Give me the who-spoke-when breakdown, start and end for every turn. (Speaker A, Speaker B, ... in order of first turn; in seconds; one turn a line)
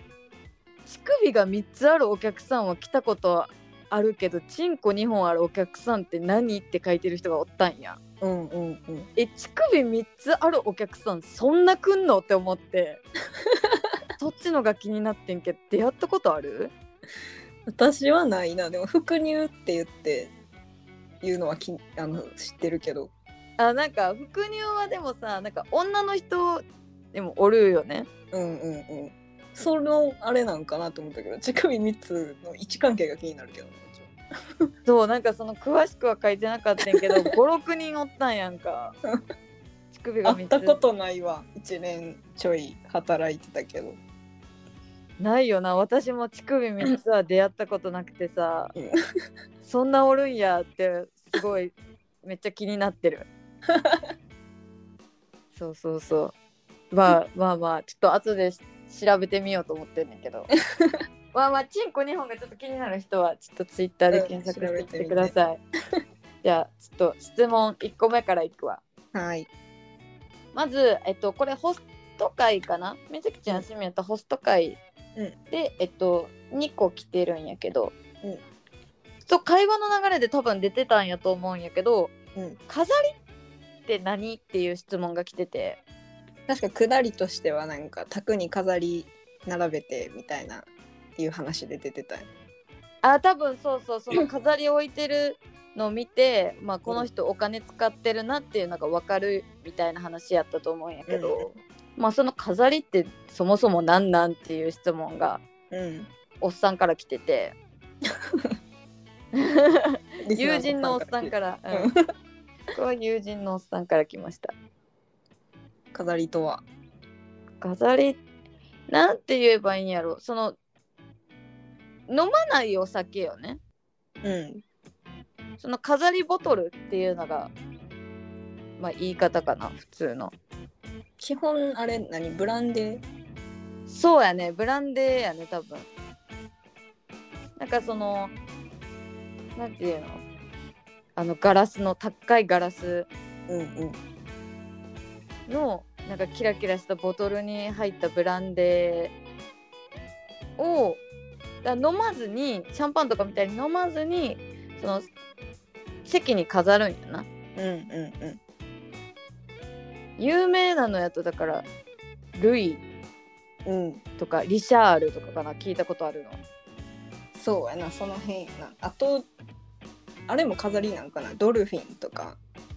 Speaker A: 0.8-8.0
Speaker B: 8.2-9.1
Speaker A: 9.2-13.0
Speaker B: 13.4-13.9
Speaker A: 14.2-16.7
Speaker B: 17.7-20.3
Speaker B: 21.2-23.1
Speaker A: 23.6-28.1
Speaker B: 28.3-34.1
Speaker A: 34.9-39.0
Speaker A: 39.9-40.8
Speaker B: 40.2-44.0
Speaker A: 45.2-48.7
Speaker A: 49.6-53.3
Speaker B: 53.7-54.1
Speaker A: 55.5-56.3
Speaker A: 56.9-60.5
Speaker A: 61.3-65.6
Speaker B: 64.1-65.3
Speaker A: 66.4-68.8
Speaker B: 69.1-69.5
Speaker A: 70.5-74.8
Speaker A: 75.5-77.9
Speaker A: 79.2-82.1
Speaker A: 82.7-83.1
Speaker A: 83.9-85.8
Speaker B: 86.5-92.3
Speaker A: 93.0-105.4
Speaker B: 101.1-101.6
Speaker B: 105.7-106.1
Speaker A: 106.4-107.6
Speaker A: 109.3-111.9
Speaker B: 110.2-112.0
Speaker A: 112.7-114.5
Speaker B: 115.9-116.6
Speaker A: 117.6-118.2
Speaker A: 118.9-120.6
Speaker A: 122.1-123.6
Speaker B: 124.2-124.6
Speaker A: 125.6-127.5
Speaker A: 128.8-130.3
Speaker B: 131.2-133.0
Speaker A: 133.9-135.9
Speaker A: 137.6-138.3
Speaker A: 139.6-140.2
Speaker A: 141.2-143.1
Speaker B: 143.5-144.0
Speaker A: 145.5-149.1
Speaker A: 150.6-151.0
Speaker A: 151.6-155.1
Speaker A: 156.0-157.3
Speaker B: 157.6-158.4
Speaker A: 160.2-161.7
Speaker A: 162.3-162.8
Speaker B: 163.7-164.0
Speaker A: 164.2-166.4
Speaker B: 167.3-169.3
Speaker B: 170.3-172.4